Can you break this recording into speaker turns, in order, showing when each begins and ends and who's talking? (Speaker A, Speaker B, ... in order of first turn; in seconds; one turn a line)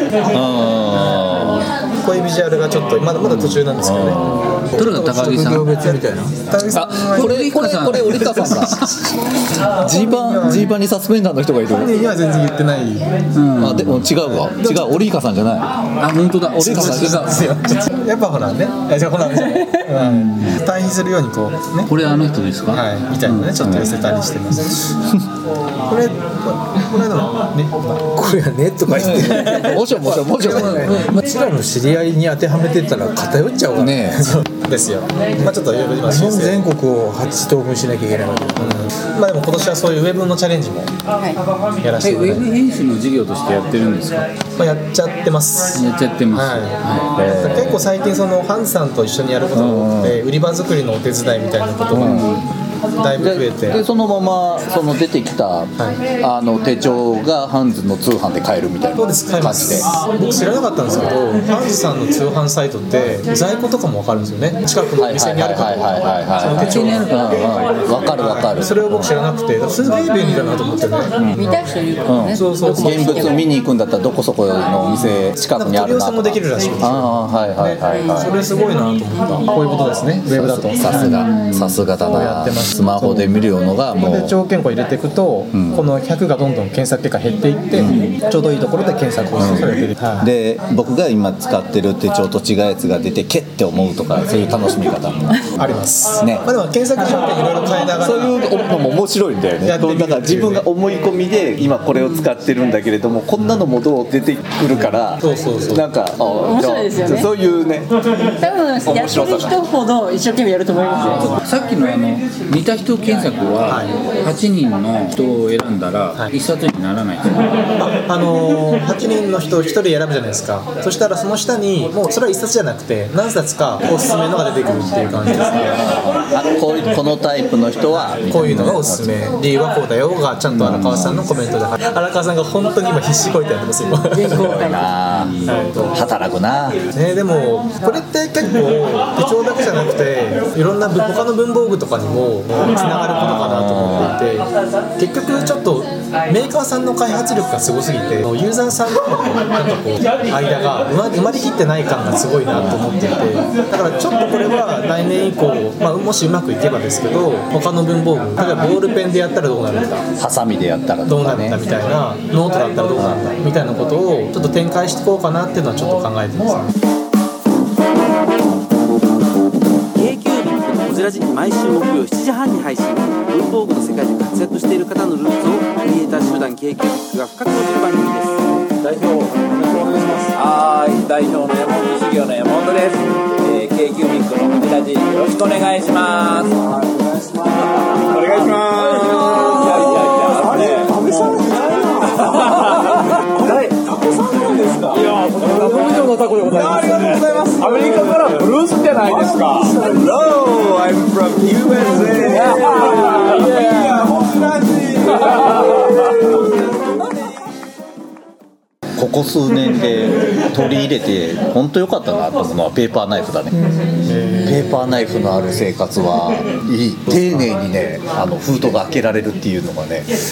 Speaker A: 0.3-1.7
Speaker B: 2.0-8.7
Speaker A: 3.2-4.7
Speaker C: 4.8-5.8
Speaker D: 5.3-6.3
Speaker A: 6.7-9.0
Speaker C: 6.7-9.0
Speaker A: 9.8-11.9
Speaker B: 9.8-10.7
Speaker B: 11.7-13.1
Speaker C: 13.3-14.0
Speaker A: 13.6-15.7
Speaker B: 14.2-14.9
Speaker C: 16.0-17.5
Speaker A: 16.6-17.3
Speaker B: 16.6-21.9
Speaker C: 19.9-20.6
Speaker C: 21.9-23.9
Speaker B: 22.7-24.8
Speaker B: 25.9-31.5
Speaker A: 28.9-31.1
Speaker C: 30.4-31.2
Speaker D: 30.7-33.9
Speaker A: 33.8-34.4
Speaker B: 34.0-36.6
Speaker D: 36.0-38.8
Speaker B: 38.5-40.9
Speaker B: 41.8-42.5
Speaker C: 42.0-44.3
Speaker B: 44.6-52.3
Speaker C: 45.7-47.2
Speaker A: 47.1-47.8
Speaker A: 49.5-50.2
Speaker A: 51.9-52.3
Speaker C: 51.9-52.4
Speaker B: 53.0-53.8
Speaker A: 53.2-59.9
Speaker B: 58.9-67.1
Speaker A: 65.0-69.1
Speaker C: 66.4-68.0
Speaker B: 68.0-71.1
Speaker C: 71.2-71.4
Speaker E: 71.3-73.3
Speaker A: 72.0-78.3
Speaker B: 72.3-73.4
Speaker B: 75.4-81.3
Speaker A: 80.3-84.4
Speaker C: 80.9-81.6
Speaker B: 82.0-83.4
Speaker B: 83.9-88.0
Speaker A: 85.5-85.8
Speaker A: 87.7-95.4
Speaker C: 87.7-88.2
Speaker B: 89.3-90.3
Speaker B: 95.5-98.4
Speaker A: 96.2-96.5
Speaker A: 97.9-107.9
Speaker B: 99.6-100.6
Speaker B: 105.2-105.9
Speaker E: 106.4-107.3
Speaker E: 108.3-111.4
Speaker A: 108.7-109.6
Speaker C: 111.1-117.5
Speaker B: 113.7-113.9
Speaker B: 117.8-125.9
Speaker A: 125.4-129.2
Speaker B: 128.2-134.7
Speaker A: 130.5-131.2
Speaker C: 130.6-131.2
Speaker E: 134.1-134.9
Speaker A: 134.3-136.8
Speaker C: 135.1-135.5
Speaker B: 135.4-136.0
Speaker B: 136.9-160.0
Speaker A: 143.1-144.2
Speaker A: 152.5-152.9
Speaker A: 160.2-161.6
Speaker B: 161.1-166.7
Speaker A: 162.9-163.3
Speaker F: 169.9-178.5
Speaker G: 178.9-179.3
Speaker G: 179.9-186.6
Speaker G: 188.0-191.0
Speaker D: 189.7-190.2
Speaker D: 192.1-192.5
Speaker G: 195.4-200.2
Speaker G: 201.1-204.0
Speaker D: 201.6-203.7
Speaker A: 209.0-213.6
Speaker B: 214.0-215.6
Speaker A: 214.4-220.1
Speaker B: 217.1-217.5